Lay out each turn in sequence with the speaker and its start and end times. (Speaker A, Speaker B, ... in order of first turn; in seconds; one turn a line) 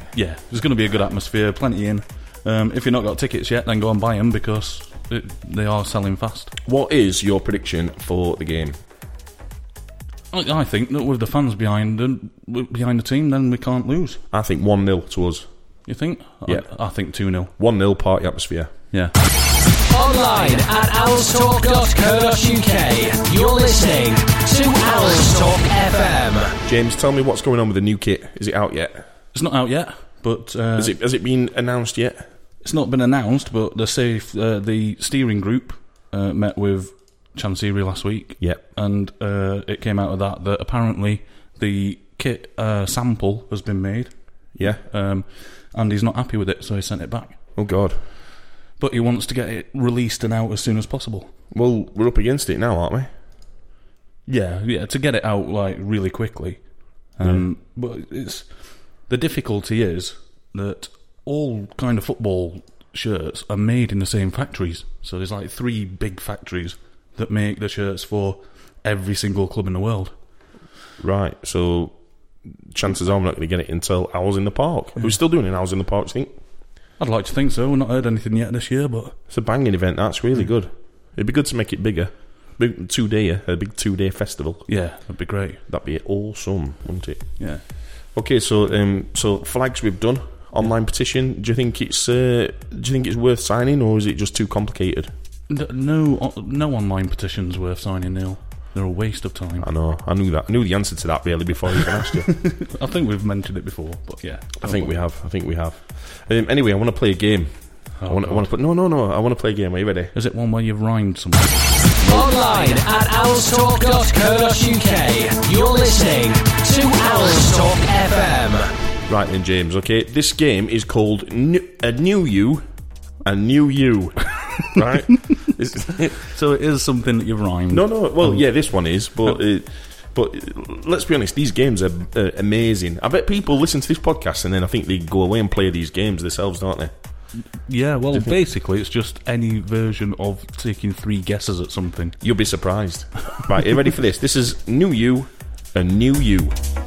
Speaker A: 0.1-6.5
Speaker B: 6.6-8.8
Speaker A: 10.3-14.2
Speaker B: 14.3-15.5
Speaker A: 15.8-17.5
Speaker B: 16.4-16.7
Speaker B: 17.5-18.7
Speaker C: 19.9-26.6
Speaker B: 26.6-29.1
Speaker A: 29.3-30.9
Speaker B: 30.8-32.3
Speaker A: 32.6-47.4
Speaker B: 44.5-44.8
Speaker B: 47.5-48.0
Speaker A: 48.8-51.3
Speaker B: 51.5-53.1
Speaker A: 54.2-70.1
Speaker B: 57.2-57.5
Speaker B: 71.0-76.3
Speaker A: 77.0-79.2
Speaker B: 79.3-85.0
Speaker A: 84.7-85.6
Speaker B: 85.7-95.1
Speaker A: 87.4-87.6
Speaker A: 95.5-99.7
Speaker B: 99.6-102.5
Speaker A: 102.4-105.0
Speaker B: 104.6-110.1
Speaker A: 108.0-108.5
Speaker A: 110.1-111.9
Speaker B: 112.0-112.3
Speaker C: 112.1-118.7
Speaker B: 119.1-126.2
Speaker A: 126.3-129.4
Speaker B: 127.7-137.3
Speaker A: 137.4-142.2
Speaker B: 138.1-138.4
Speaker B: 142.2-146.6